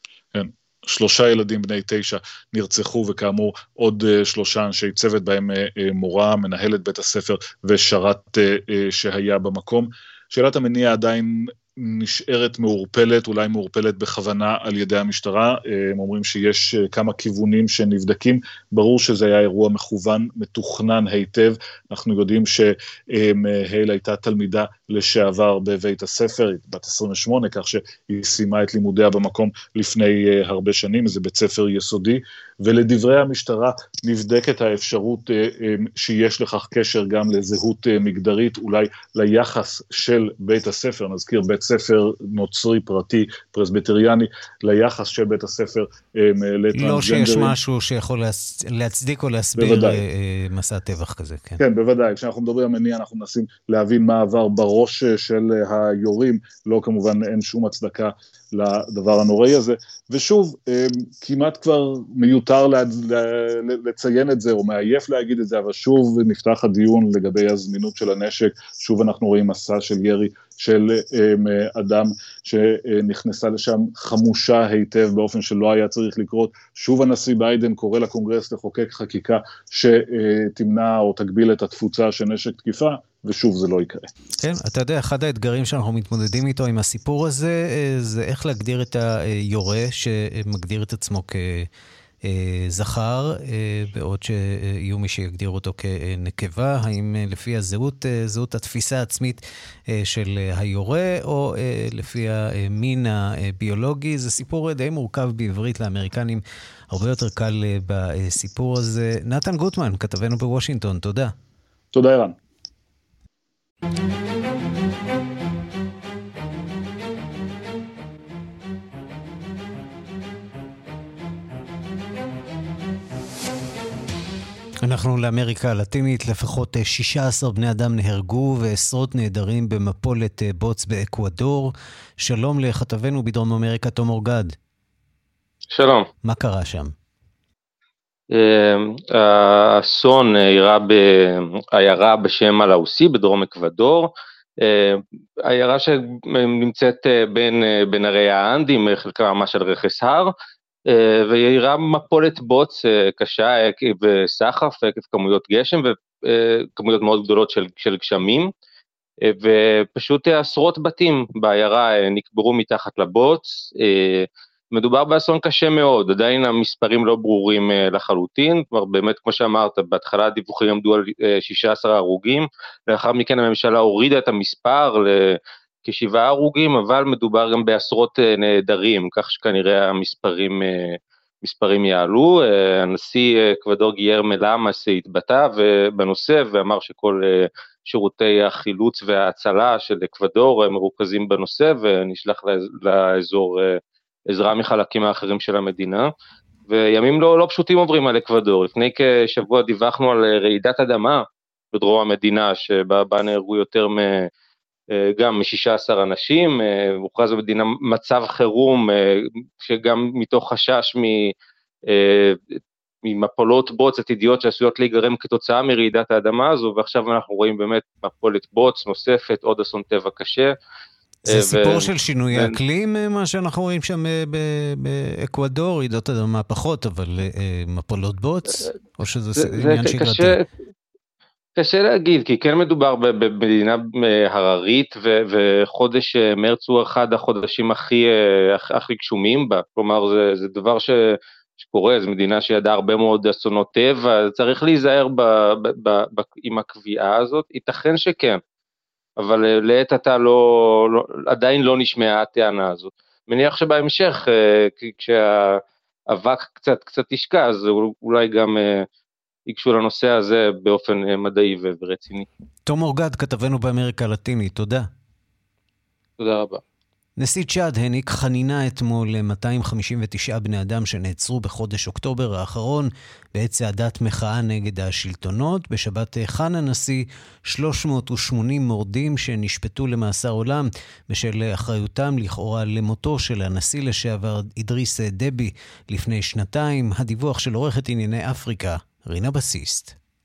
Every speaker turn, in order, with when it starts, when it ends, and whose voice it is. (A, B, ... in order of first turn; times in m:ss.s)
0:00.3-0:47.5 A
0:46.8-0:51.6 B
0:49.6-0:50.0 A
0:51.6-1:24.1 A
1:24.4-1:31.7 B
1:32.2-1:51.3 B
1:51.9-1:52.4 A
2:04.8-2:14.6 B
2:15.7-2:16.1 C
2:16.2-2:16.9 B
2:18.3-2:30.3 C
2:30.9-2:38.5 C
2:39.3-3:16.1 C
3:16.7-3:24.3 C
3:24.9-3:31.3 C
3:31.9-3:40.5 C
3:41.3-3:50.4 B
3:41.3-3:42.5 C
3:49.4-3:50.5 C
3:51.6-4:08.4 C
4:09.2-4:15.6 C
4:16.1-4:18.9 C
4:19.5-4:22.3 C
4:22.7-4:24.9 B
4:26.2-4:26.6 C
4:27.2-4:50.0 B